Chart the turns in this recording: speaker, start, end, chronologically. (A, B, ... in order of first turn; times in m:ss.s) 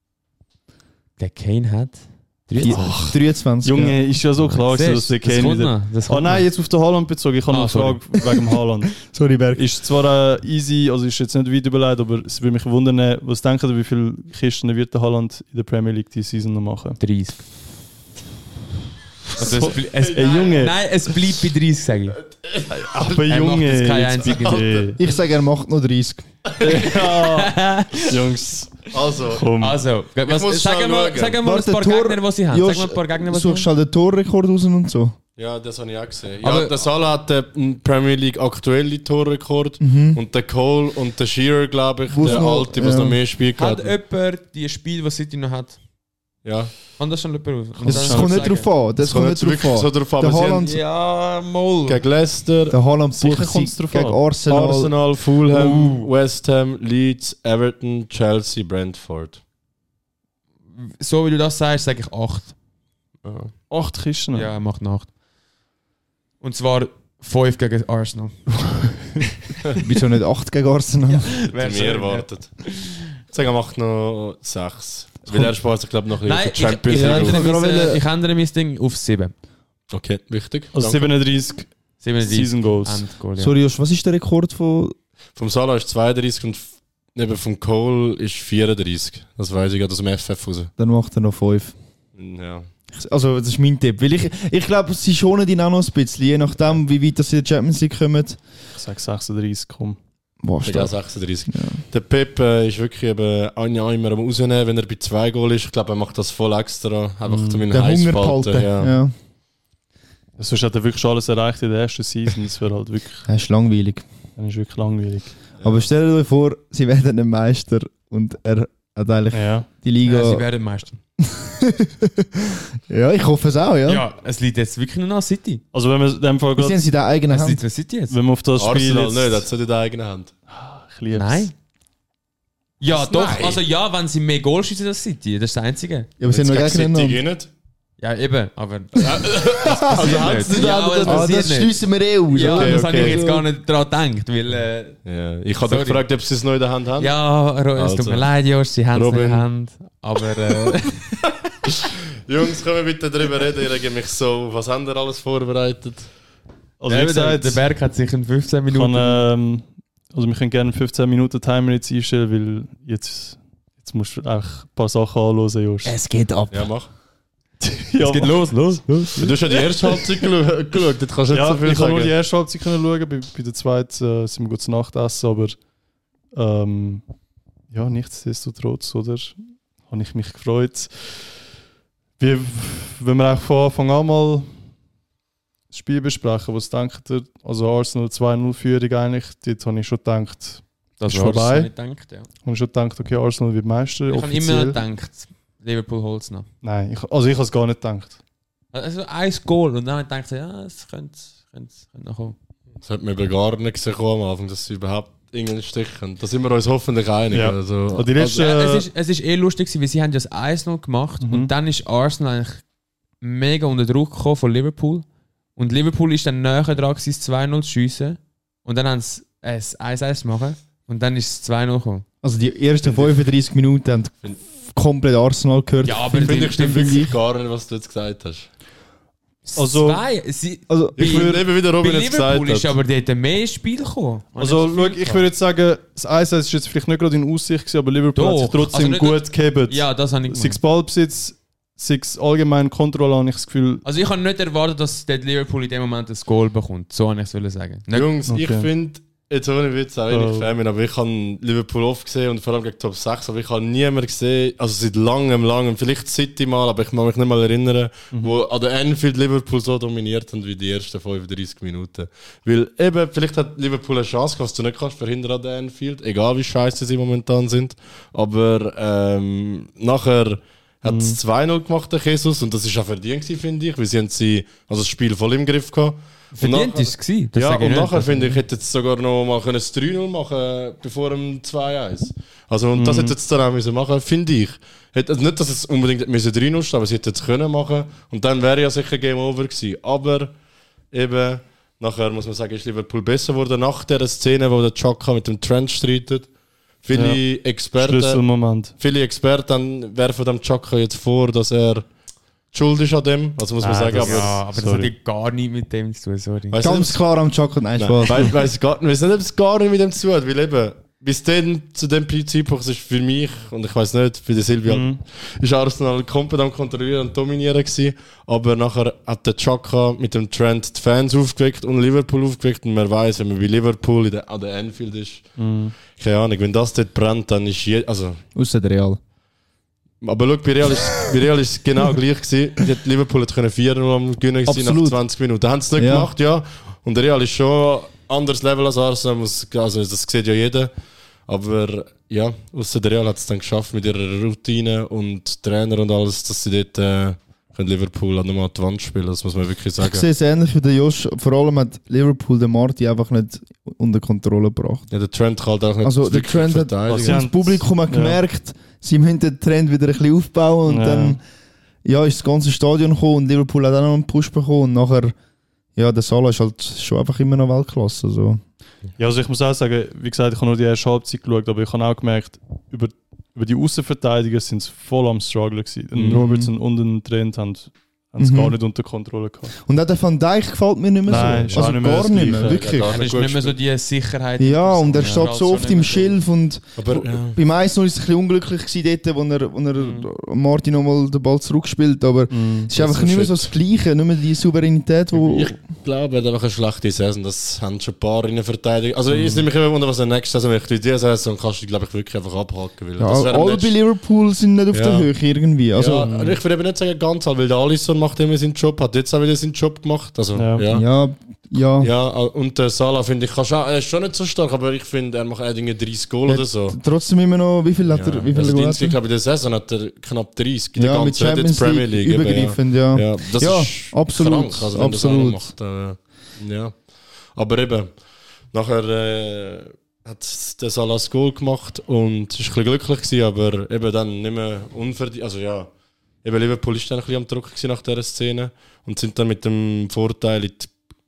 0:01.2-0:03.0 A
0:02.6-0:04.0 B
0:02.7-0:03.1 C
0:03.6-0:17.0 D
0:04.4-0:06.5 A
0:07.5-0:08.2 A
0:09.0-0:09.7 B
0:17.0-0:17.4 A
0:19.4-0:22.2 A
0:19.4-0:20.8 D
0:20.2-0:20.7 C
0:22.2-0:23.3 C
0:22.7-0:25.0 D
0:23.2-0:24.9 A
0:24.2-0:24.8 C
0:25.0-0:26.3 B
0:26.6-0:29.8 D
0:26.6-0:28.2 A
0:28.9-0:29.5 C
0:29.6-0:33.7 A
0:30.2-0:31.4 C
0:31.4-0:35.2 B
0:35.4-0:43.9 C
0:36.4-0:36.8 A
0:39.8-0:40.2 B
0:42.1-0:43.2 B
0:43.5-0:45.8 A
0:46.4-0:46.7 C
0:47.0-0:48.7 A
0:47.8-0:48.5 D
0:47.9-0:50.8 B
0:49.0-0:50.7 C
0:50.6-0:52.0 A
0:51.9-0:52.8 C
0:52.7-0:55.0 B
0:53.2-0:54.2 D
0:54.5-0:59.4 C
0:55.5-0:56.1 A
1:00.8-1:02.5 A
1:03.2-1:03.5 A
1:03.7-1:04.5 D
1:04.3-1:05.1 A
1:06.4-1:08.4 A
1:09.8-1:11.3 B
1:11.1-1:13.1 A
1:11.5-1:12.6 C
1:13.2-1:17.4 C
1:16.2-1:19.3 A
1:16.9-1:18.0 B
1:19.9-1:21.1 C
1:20.7-1:23.0 D
1:22.0-1:23.5 A
1:23.4-1:24.9 B
1:25.4-1:30.7 C
1:30.8-1:31.7 B
1:32.2-1:32.7 C
1:32.9-1:38.4 B
1:38.7-1:40.0 D
1:40.4-1:40.9 B
1:40.6-1:48.9 C
1:41.5-1:41.8 B
1:47.2-1:47.7 D
1:47.7-1:49.1 B
1:50.4-1:53.2 D
1:53.2-1:54.0 B
1:54.4-1:55.4 D
1:55.6-1:55.9 C
1:55.6-2:00.4 B
1:59.3-1:59.7 D
2:00.0-2:01.0 A
2:01.2-2:04.0 B
2:03.8-2:05.6 A
2:05.7-2:06.8 D
2:06.6-2:07.6 B
2:07.3-2:08.2 A
2:08.1-2:09.4 D
2:08.6-2:10.3 C
2:10.5-2:11.5 D
2:11.1-2:11.5 A
2:12.8-2:16.1 A
2:12.9-2:13.6 C
2:16.2-2:17.2 B
2:16.3-2:17.5 C
2:18.0-2:25.0 A
2:19.2-2:21.4 C
2:19.7-2:20.2 B
2:21.0-2:23.4 B
2:22.4-2:23.2 C
2:25.0-2:27.1 C
2:25.6-2:26.0 A
2:27.0-2:31.2 A
2:27.7-2:28.3 C
2:28.9-2:29.5 C
2:32.2-2:36.1 C
2:36.8-2:37.6 D
2:36.9-2:39.3 A
2:38.7-2:45.9 D
2:45.8-2:46.7 B
2:46.5-2:46.9 C
2:47.6-2:48.4 D
2:48.0-2:49.3 A
2:49.2-2:52.1 C
2:51.3-2:55.6 D
2:56.3-2:57.0 D
2:57.7-3:01.3 D
3:02.2-3:04.5 D
3:05.7-3:11.7 D
3:11.0-3:12.3 A
3:12.4-3:14.8 D
3:14.1-3:16.4 A
3:16.6-3:18.2 D
3:18.7-3:22.3 A
3:22.8-3:28.1 C
3:27.3-3:28.9 D
3:28.2-3:32.6 A
3:31.2-3:31.5 D
3:33.2-3:35.0 A
3:35.6-3:42.0 A
3:42.2-3:47.1 B
3:42.8-3:43.2 C
3:45.8-3:46.9 A
3:46.2-3:48.5 C
3:49.4-3:55.3 A
3:49.6-3:50.0 D
3:50.7-3:51.3 B
3:51.0-3:52.7 C
3:51.1-3:51.4 D
3:54.4-4:03.8 D
3:58.1-4:00.6 A
4:03.8-4:08.1 A
4:07.9-4:50.3 C
4:08.3-4:08.7 D
4:10.1-4:10.5 D
4:30.8-4:31.2 D
4:36.3-4:38.4 A
4:42.7-4:43.2 D
4:50.9-4:56.3 C
4:56.8-5:01.9 C
4:56.9-4:57.2 D
4:57.8-4:58.7 D
5:02.5-5:04.4 C
5:03.6-5:06.6 A
5:04.0-5:04.9 D
5:06.5-5:07.0 C
5:06.6-5:08.4 B
5:07.8-5:25.4 C
5:14.7-5:15.0 D
5:25.4-5:25.7 D
5:25.9-5:28.2 C
5:28.3-5:29.0 B
5:30.0-5:40.7 C
5:34.5-5:35.0 B
5:35.8-5:36.1 B
5:41.3-5:50.0 C
5:49.8-5:54.9 B
5:54.9-5:57.2 C
5:55.8-6:01.2 B
5:56.9-5:58.2 D
6:00.7-6:01.2 D
6:01.8-6:05.1 B
6:05.8-6:08.4 B
6:09.0-6:19.5 D
6:15.9-6:16.2 C
6:16.0-6:16.5 B
6:18.2-6:18.6 B
6:19.6-6:22.9 B
6:21.1-6:22.6 D
6:21.1-6:23.5 C
6:22.8-6:26.2 A
6:24.4-6:35.5 B
6:26.8-6:27.4 C
6:29.8-6:30.0 A
6:32.3-6:32.7 D
6:32.7-6:33.5 C
6:35.1-6:43.7 C
6:39.1-6:39.4 D
6:43.0-6:46.1 B
6:44.7-6:45.1 C
6:45.7-6:50.8 C
6:46.0-6:46.4 D
6:50.4-6:50.6 D
6:50.7-6:51.9 B
6:51.8-6:56.8 C
6:56.2-6:59.0 B
6:57.9-7:06.8 C
7:00.8-7:05.5 B
7:07.4-7:07.9 C
7:08.5-7:15.7 C
7:16.2-7:20.7 C